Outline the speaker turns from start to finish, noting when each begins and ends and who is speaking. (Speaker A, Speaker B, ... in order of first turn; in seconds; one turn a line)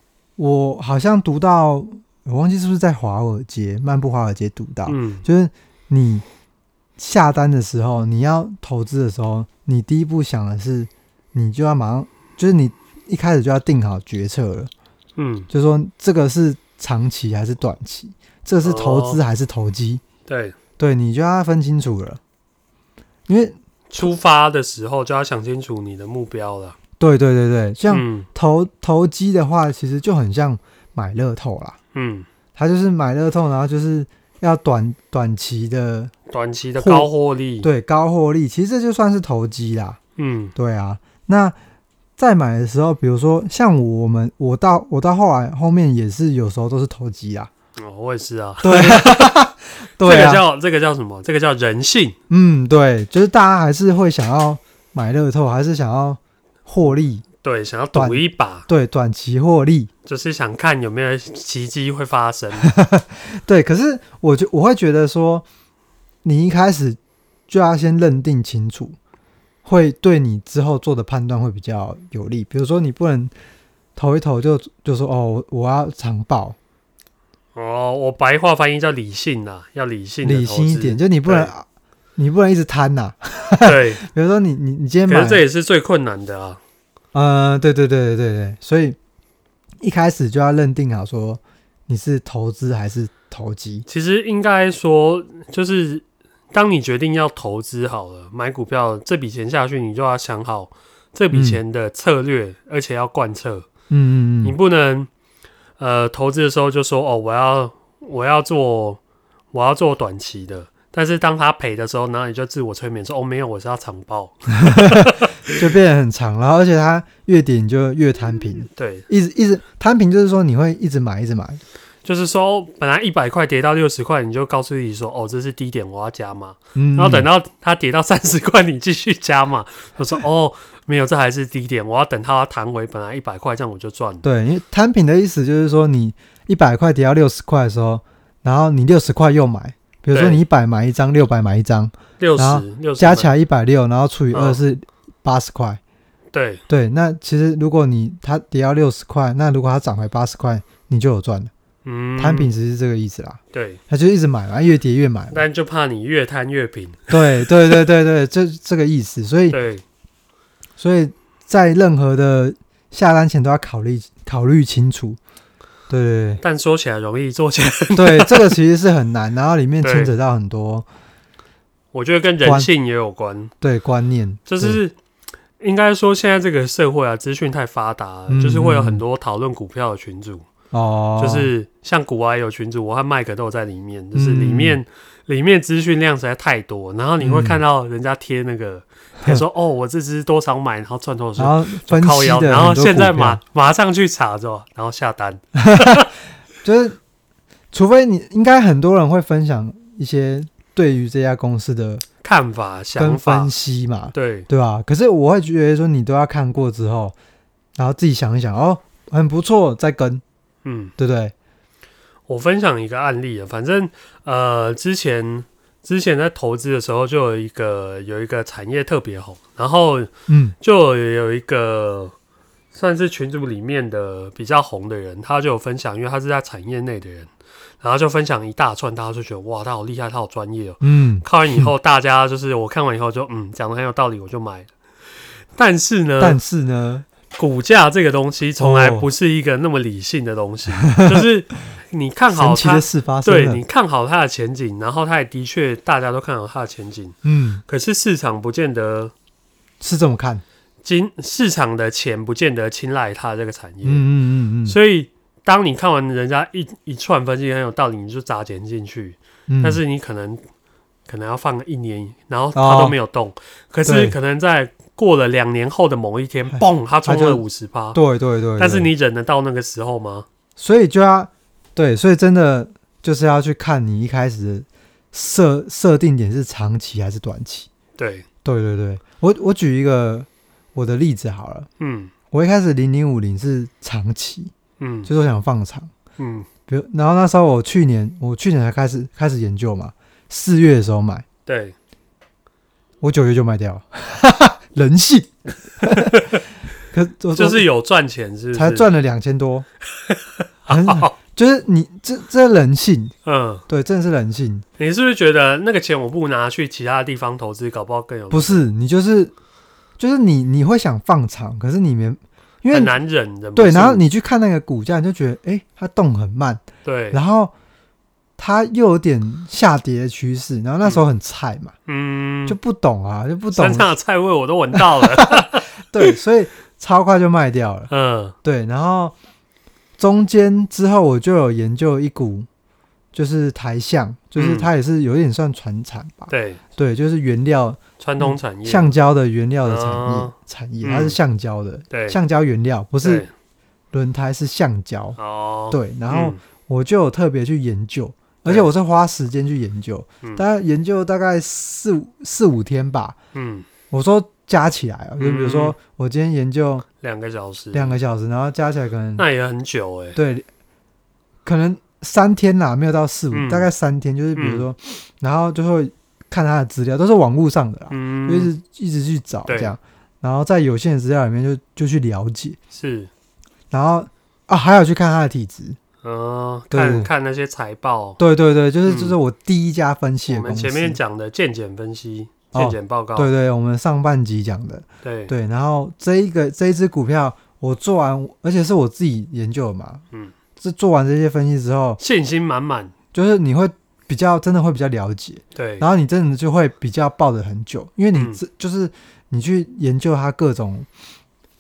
Speaker A: 0.4-6.2
Speaker B: 4.9-5.2
Speaker A: 7.0-14.7
Speaker B: 15.2-15.5
Speaker A: 15.5-20.0
Speaker B: 18.6-19.2
Speaker B: 20.3-20.5
Speaker A: 20.8-22.2
Speaker A: 23.3-24.1
Speaker B: 23.9-26.8
Speaker A: 27.0-31.8
Speaker B: 27.9-28.3
Speaker B: 31.9-32.3
Speaker A: 32.5-36.1
Speaker B: 36.3-37.7
Speaker A: 36.8-37.1
Speaker A: 37.6-40.0
Speaker B: 40.2-40.5
Speaker A: 40.5-41.5
Speaker A: 42.2-47.5
Speaker B: 47.8-49.4
Speaker A: 48.6-50.4
Speaker B: 50.0-52.1
Speaker A: 52.3-57.2
Speaker B: 57.4-58.7
Speaker A: 57.9-59.9
Speaker B: 60.0-62.7
Speaker A: 62.6-65.4
Speaker A: 66.2-67.0
Speaker A: 67.5-69.0
Speaker A: 69.6-73.3
Speaker A: 74.0-76.5
Speaker B: 77.5-81.5
Speaker A: 80.2-81.6
Speaker A: 82.2-85.4
Speaker B: 83.6-84.0
Speaker B: 85.1-86.6
Speaker A: 87.1-89.0
Speaker A: 89.8-93.8
Speaker B: 93.9-103.7
Speaker A: 101.3-101.6
Speaker A: 103.9-104.5
Speaker B: 104.4-105.1
Speaker B: 105.8-109.0
Speaker B: 109.5-115.5
Speaker A: 114.7-121.6
Speaker B: 118.8-119.1
Speaker B: 122.0-134.2
Speaker A: 126.8-127.2
Speaker A: 134.2-145.8
Speaker B: 140.1-140.4
Speaker B: 142.2-143.3
Speaker B: 144.3-144.6
Speaker B: 146.3-146.6
Speaker A: 146.7-151.5
Speaker B: 151.8-152.5
Speaker A: 152.2-155.4
Speaker B: 153.5-153.8
Speaker B: 155.3-157.2
Speaker A: 157.1-159.6
Speaker B: 159.5-159.8
Speaker A: 160.8-165.2
Speaker A: 165.9-166.4
Speaker B: 166.4-168.6
Speaker A: 167.9-170.8
Speaker B: 169.8-170.1
Speaker B: 171.9-173.5
Speaker A: 172.4-172.7
Speaker A: 173.6-174.8
Speaker B: 174.5-174.9
Speaker B: 175.6-180.5
Speaker A: 178.3-179.0
Speaker A: 180.7-181.5
Speaker B: 181.2-196.1
Speaker A: 184.1-184.8
Speaker A: 187.2-187.6
Speaker A: 191.4-193.4
Speaker A: 195.6-196.0
Speaker A: 196.6-197.0
Speaker A: 197.7-202.0
Speaker B: 202.2-203.5
Speaker A: 203.0-207.2
Speaker B: 204.1-204.5
Speaker A: 207.8-210.2
Speaker B: 210.6-210.9
Speaker A: 211.0-211.3
Speaker B: 212.3-220.1
Speaker A: 220.3-220.5
Speaker B: 220.6-222.1
Speaker B: 222.7-227.3
Speaker B: 227.8-234.7
Speaker A: 230.8-231.7
Speaker B: 235.5-236.4
Speaker A: 236.2-237.1
Speaker B: 237.3-249.1
Speaker A: 238.6-239.1
Speaker A: 240.8-241.2
Speaker A: 242.3-243.6
Speaker A: 247.2-247.6
Speaker A: 249.8-250.4
Speaker B: 250.8-254.1
Speaker A: 253.8-254.8
Speaker B: 254.7-260.4
Speaker A: 259.5-259.8
Speaker B: 261.1-268.0
Speaker A: 262.5-262.9
Speaker A: 263.8-264.1
Speaker A: 266.5-267.4
Speaker A: 267.9-268.9
Speaker B: 268.6-270.3
Speaker A: 270.6-277.7
Speaker B: 277.9-278.2
Speaker A: 278.4-281.7
Speaker B: 281.8-282.1
Speaker A: 282.3-284.5
Speaker B: 284.8-285.1
Speaker A: 285.1-285.9
Speaker B: 286.2-286.5
Speaker A: 286.7-291.2
Speaker B: 291.4-291.7
Speaker A: 293.0-296.2
Speaker B: 295.8-296.4
Speaker A: 296.9-297.6
Speaker B: 297.4-298.9
Speaker A: 298.5-299.6
Speaker B: 300.1-301.1
Speaker A: 300.7-303.1
Speaker B: 303.2-303.6
Speaker A: 303.7-304.6
Speaker B: 304.8-308.6
Speaker A: 308.3-309.3
Speaker A: 310.0-312.9
Speaker B: 312.7-314.0
Speaker A: 313.5-317.5
Speaker B: 316.8-317.2
Speaker A: 318.4-321.7
Speaker B: 321.9-322.6
Speaker A: 322.5-323.9
Speaker B: 323.5-326.1
Speaker A: 324.7-327.9
Speaker B: 327.9-328.3
Speaker A: 328.4-329.1
Speaker A: 330.0-332.5
Speaker A: 333.1-343.2
Speaker B: 334.4-334.7
Speaker B: 336.3-336.6
Speaker B: 338.0-338.9
Speaker B: 339.6-341.2
Speaker B: 341.9-342.2
Speaker B: 343.0-343.3
Speaker A: 343.9-345.2
Speaker B: 345.2-346.4
Speaker A: 345.7-353.1
Speaker B: 353.3-353.6
Speaker A: 353.9-356.8
Speaker B: 355.2-355.7
Speaker B: 357.0-358.0
Speaker A: 357.7-359.2
Speaker B: 359.2-360.2
Speaker A: 360.1-360.4
Speaker A: 361.4-372.6
Speaker B: 363.3-363.7
Speaker B: 364.4-364.6
Speaker B: 367.9-368.5
Speaker B: 369.5-369.7
Speaker B: 372.7-373.1
Speaker A: 373.7-375.8
Speaker B: 376.0-378.2
Speaker A: 376.7-377.1
Speaker A: 378.2-381.0
Speaker B: 378.9-379.2
Speaker B: 380.3-383.3
Speaker A: 382.5-390.0
Speaker B: 385.0-385.3
Speaker A: 390.6-392.0
Speaker B: 392.0-392.9
Speaker A: 393.1-400.9
Speaker B: 395.5-395.9
Speaker B: 398.1-398.4